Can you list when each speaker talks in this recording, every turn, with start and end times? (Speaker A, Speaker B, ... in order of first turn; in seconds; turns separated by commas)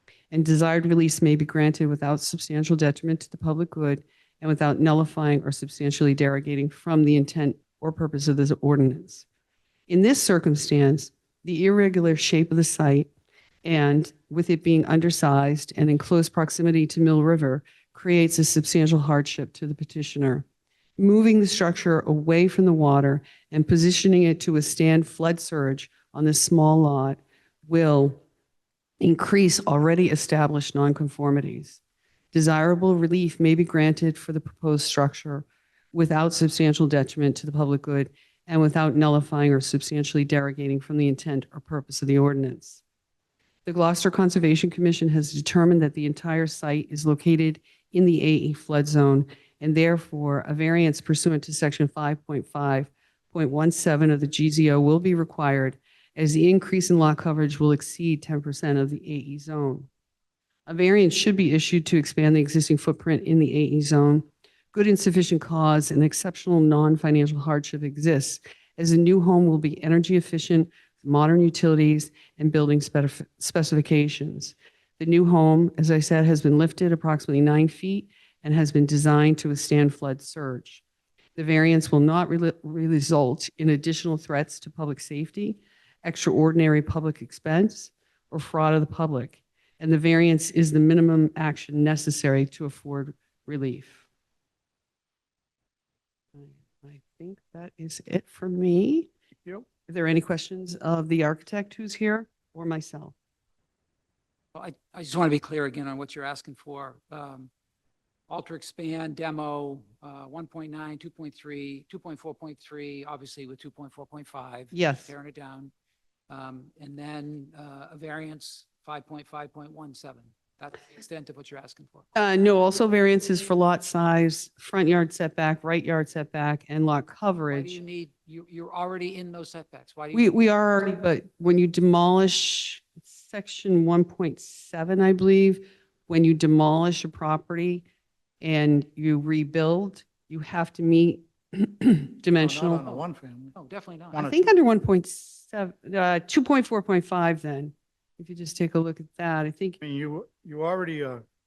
Speaker A: 0.3-9.2, Speaker A: 9.9-13.1, Speaker A: 13.6-20.4, Speaker A: 21.0-28.2, Speaker A: 29.0-31.8, Speaker A: 32.3-42.8, Speaker A: 43.6-59.9, Speaker A: 60.7-80.8, Speaker A: 81.3-94.0, Speaker A: 96.3-99.1, Speaker A: 99.9-103.1, Speaker B: 104.5-107.5, Speaker B: 108.3-115.7, Speaker A: 114.7-115.1, Speaker B: 116.3-122.1, Speaker A: 122.1-127.8, Speaker B: 127.5-130.3, Speaker A: 130.1-137.8, Speaker A: 138.4-142.9, Speaker C: 142.4-143.6, Speaker B: 143.6-144.3, Speaker C: 144.1-144.4, Speaker A: 144.2-149.8, Speaker C: 149.8-151.2